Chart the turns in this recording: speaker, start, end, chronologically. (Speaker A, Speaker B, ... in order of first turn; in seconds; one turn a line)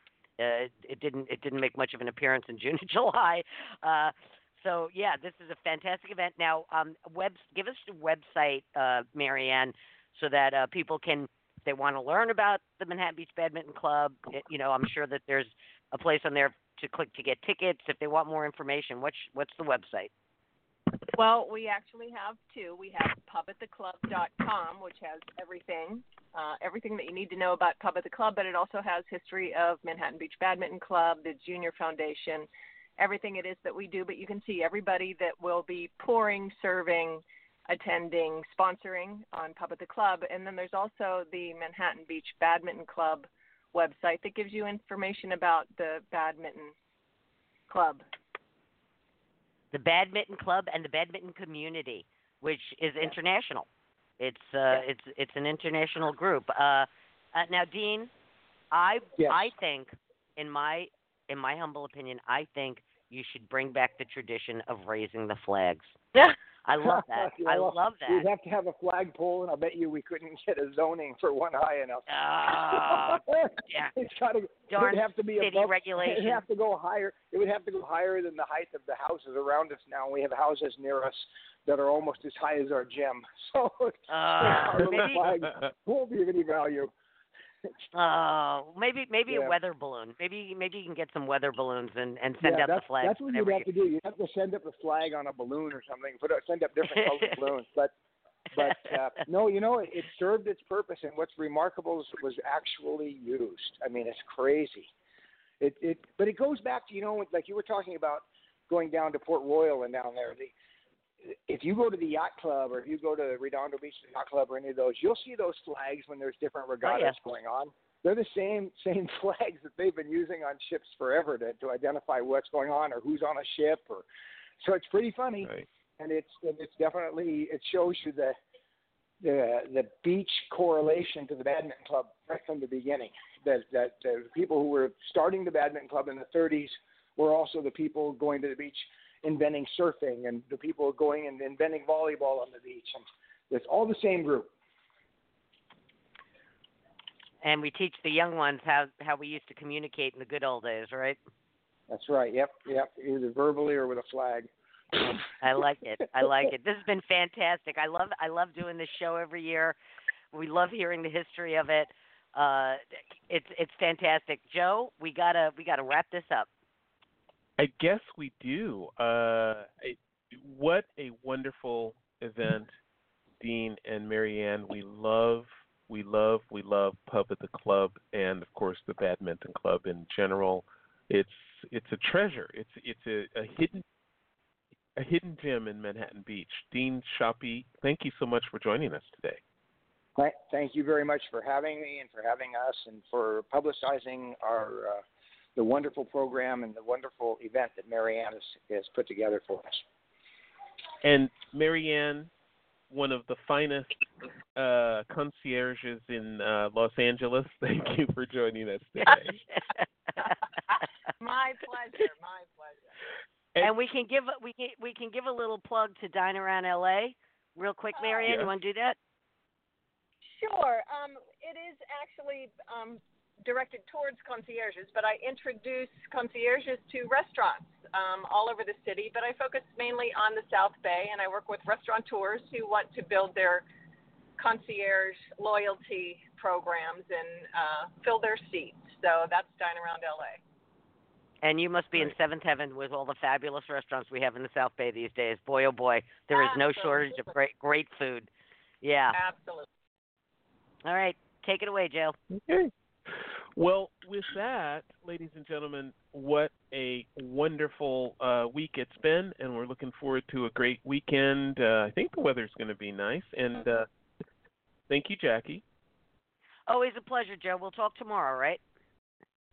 Speaker A: 0.4-20.1
Speaker B: 21.1-32.5
Speaker B: 33.0-46.7
Speaker B: 47.7-48.0
Speaker A: 49.7-53.7
Speaker A: 54.2-58.1
Speaker A: 58.7-68.3
Speaker C: 59.2-59.5
Speaker C: 66.7-86.9
Speaker A: 72.1-73.9
Speaker A: 74.7-76.4
Speaker A: 84.1-85.2
Speaker A: 87.9-93.7
Speaker C: 89.3-89.6
Speaker C: 92.4-97.9
Speaker C: 98.5-104.9
Speaker C: 105.6-110.5
Speaker C: 111.2-124.1
Speaker A: 116.8-117.2
Speaker C: 124.6-128.3
Speaker C: 129.2-144.5
Speaker A: 147.4-151.2
Speaker C: 151.9-154.5
Speaker A: 155.3-159.8
Speaker A: 160.3-166.5
Speaker D: 167.6-172.7
Speaker D: 173.4-183.8
Speaker D: 185.0-189.4
Speaker C: 190.2-195.0
Speaker C: 195.6-199.8
Speaker D: 201.0-202.3
Speaker D: 202.9-204.0
Speaker D: 204.6-209.4
Speaker B: 211.2-212.9
Speaker A: 213.6-219.0
Speaker B: 217.9-218.3
Speaker B: 220.3-233.7
Speaker B: 234.4-240.4
Speaker A: 241.4-248.3
Speaker B: 246.3-247.4
Speaker A: 248.8-249.2
Speaker B: 249.1-249.7
Speaker A: 250.8-252.2
Speaker D: 252.3-263.9
Speaker D: 264.9-265.6
Speaker A: 266.7-268.6